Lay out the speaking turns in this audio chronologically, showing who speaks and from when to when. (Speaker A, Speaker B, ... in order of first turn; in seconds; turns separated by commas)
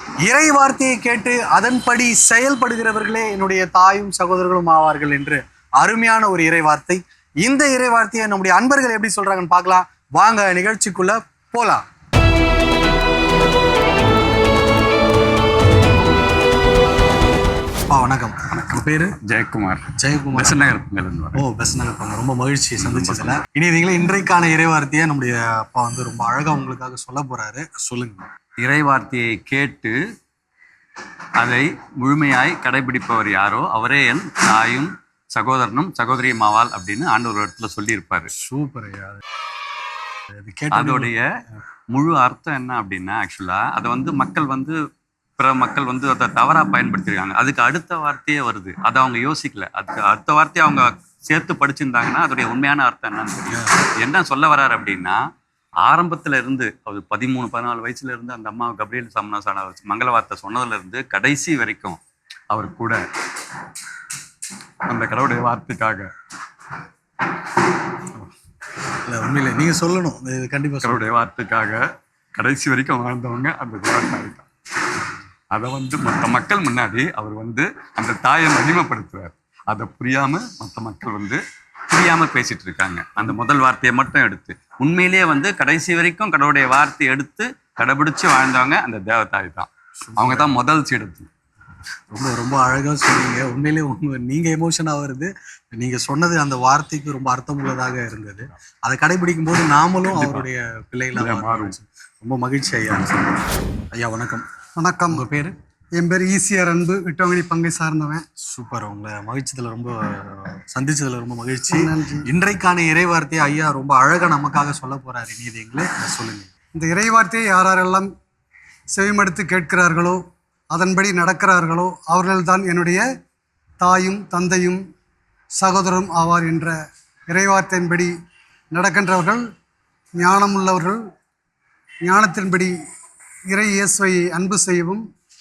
Speaker A: 0.2-11.8, Speaker A: 17.9-19.1, Speaker B: 18.5-21.4, Speaker A: 20.0-20.7, Speaker A: 21.3-28.3, Speaker B: 22.8-23.3, Speaker B: 28.6-29.9, Speaker B: 31.4-38.3, Speaker A: 38.3-39.2, Speaker A: 40.3-41.1, Speaker B: 40.7-41.2, Speaker B: 41.9-44.7, Speaker B: 45.4-55.2, Speaker B: 55.8-63.0, Speaker B: 64.9-66.1, Speaker A: 69.0-71.0, Speaker B: 70.8-71.8, Speaker B: 72.3-74.4, Speaker B: 75.5-91.3, Speaker A: 90.0-90.5, Speaker A: 92.1-103.4, Speaker B: 100.1-100.4, Speaker B: 101.1-101.7, Speaker A: 103.9-104.4, Speaker C: 104.8-105.2, Speaker A: 105.1-105.5, Speaker C: 106.0-108.2, Speaker A: 108.5-116.5, Speaker C: 111.7-112.3, Speaker C: 116.8-118.1, Speaker C: 118.9-120.2, Speaker C: 120.7-123.0, Speaker C: 123.8-124.8, Speaker C: 125.6-126.8, Speaker C: 127.3-128.1, Speaker C: 128.7-129.4, Speaker C: 130.2-131.0, Speaker C: 132.0-132.7, Speaker C: 133.5-135.0